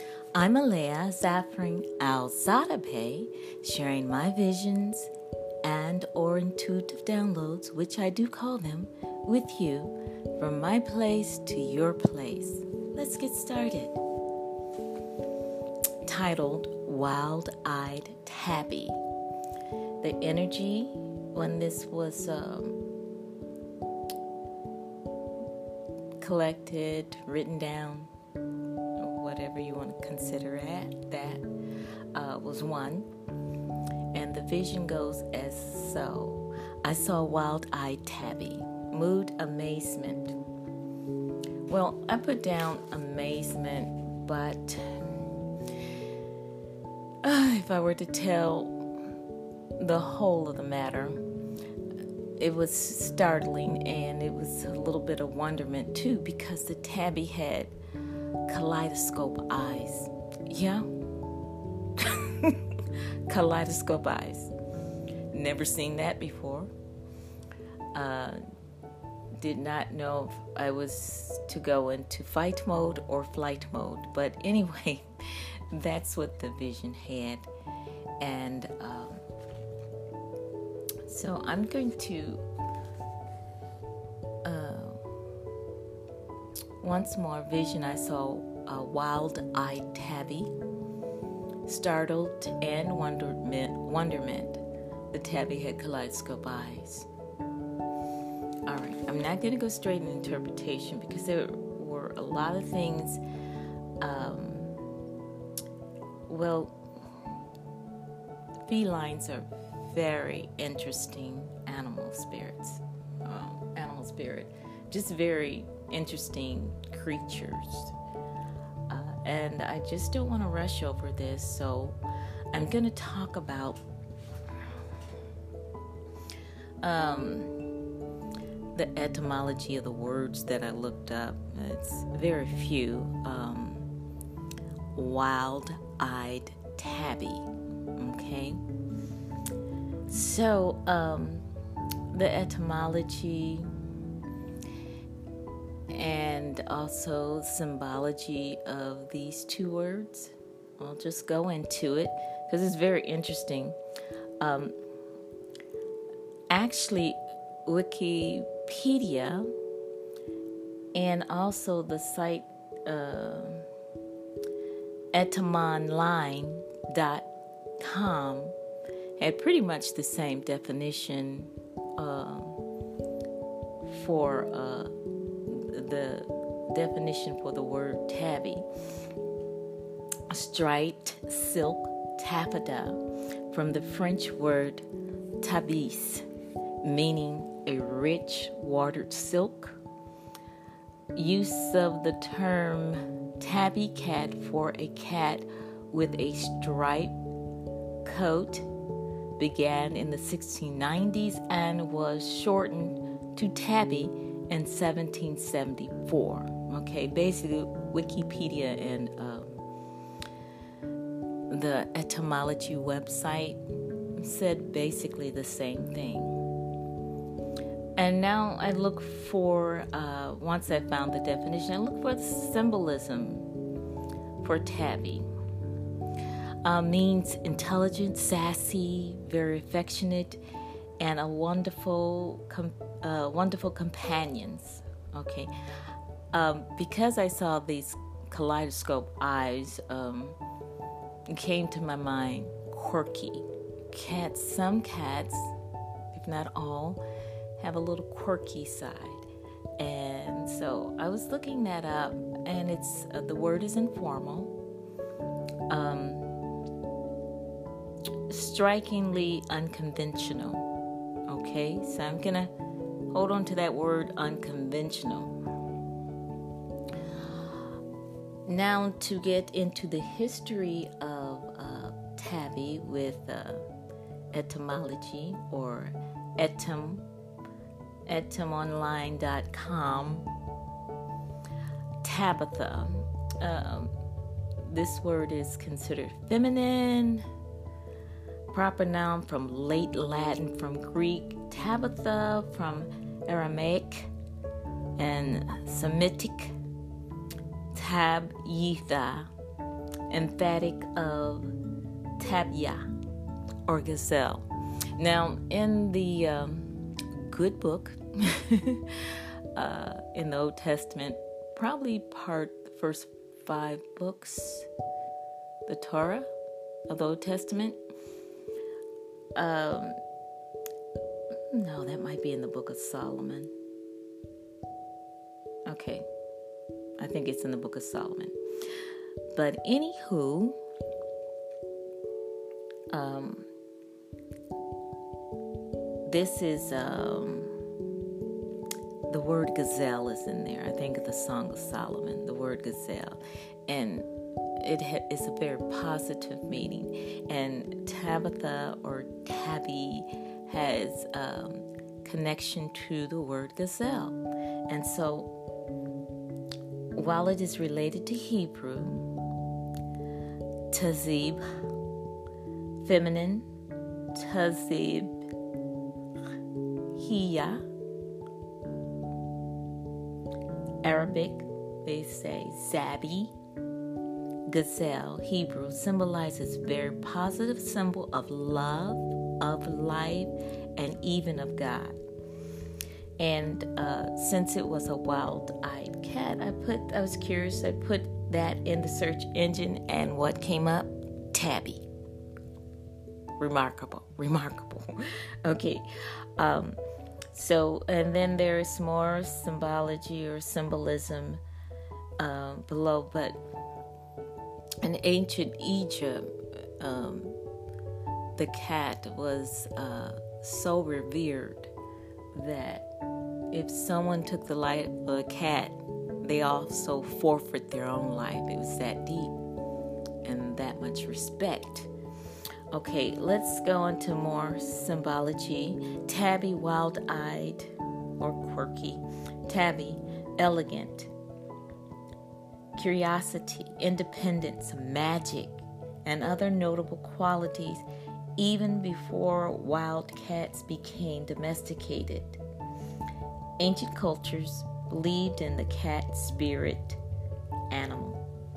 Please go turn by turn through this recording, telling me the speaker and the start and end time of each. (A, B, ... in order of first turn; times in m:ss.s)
0:00.3-0:05.1 A
0:05.6-0:14.0 A
0:16.0-0:19.0 A
0:20.0-0:22.8 A
0:26.2-0:28.1 A
0:29.0-0:31.4 A
0:32.1-0:33.1 A
0:34.1-0:40.3 A
0:41.7-0:45.0 A
0:47.2-0:48.8 A
0:49.8-0:51.2 A
0:52.4-0:57.7 A
0:58.5-1:00.9 A
1:02.0-1:04.5 A
1:05.3-1:06.7 A
1:07.9-1:08.4 A
1:09.4-1:17.5 A
1:18.2-1:19.2 A
1:21.0-1:22.4 A
1:24.4-1:25.0 A
1:26.8-1:30.5 A
1:31.7-1:37.1 A
1:38.7-1:43.2 A
1:44.0-1:44.8 A
1:46.3-1:46.8 A
1:48.6-1:57.9 A
1:58.9-2:02.0 A
2:02.5-2:03.8 A
2:06.8-2:07.7 A
2:08.7-2:13.9 A
2:14.9-2:18.6 A
2:20.1-2:21.4 A
2:22.1-2:23.7 A
2:25.9-2:33.8 A
2:34.4-2:34.8 A
2:36.5-2:39.5 A
2:40.9-2:43.7 A
2:45.1-2:48.6 A
2:49.2-2:52.6 A
2:53.9-2:54.9 A
2:55.5-2:58.7 A
3:00.3-3:04.9 A
3:05.4-3:06.3 A
3:06.8-3:09.8 A
3:11.1-3:17.1 A
3:18.0-3:18.7 A
3:19.4-3:29.6 A
3:31.5-3:33.6 A
3:34.2-3:36.4 A
3:38.0-3:43.5 A
3:44.4-3:45.3 A
3:46.6-3:50.4 A
3:51.0-4:00.4 A
4:01.3-4:05.5 A
4:06.1-4:07.0 A
4:07.6-4:09.3 A
4:09.8-4:14.5 A
4:15.7-4:16.4 A
4:18.3-4:20.7 A
4:21.3-4:22.5 A
4:23.1-4:25.3 A
4:27.1-4:27.6 A
4:28.4-4:33.7 A
4:34.3-4:37.0 A
4:38.0-4:40.3 A
4:42.0-4:43.9 A
4:44.6-4:47.2 A
4:48.5-4:54.1 A
4:55.0-4:56.5 A
4:57.7-4:59.3 A
5:00.1-5:01.5 A
5:02.2-5:02.9 A
5:03.6-5:14.7 A
5:15.6-5:16.3 A
5:16.9-5:17.8 A
5:19.3-5:20.0 A
5:21.5-5:23.5 A
5:25.6-5:26.0 A
5:27.0-5:30.6 A
5:32.9-5:33.5 A
5:36.0-5:37.6 A
5:39.1-5:55.3 A
5:57.0-5:59.1 A
6:00.7-6:01.4 A
6:02.8-6:03.5 A
6:04.1-6:05.2 A
6:06.9-6:07.6 A
6:10.8-6:13.3 A
6:14.5-6:22.0 A
6:23.2-6:31.9 A
6:33.4-6:35.8 A
6:36.4-6:36.8 A
6:37.3-6:41.4 A
6:42.2-6:43.4 A
6:44.8-6:47.4 A
6:48.3-6:51.7 A
6:52.3-6:52.9 A
6:53.5-6:59.4 A
7:00.2-7:01.9 A
7:02.7-7:11.1 A
7:12.8-7:17.8 A
7:18.4-7:22.4 A
7:23.6-7:27.0 A
7:27.7-7:28.2 A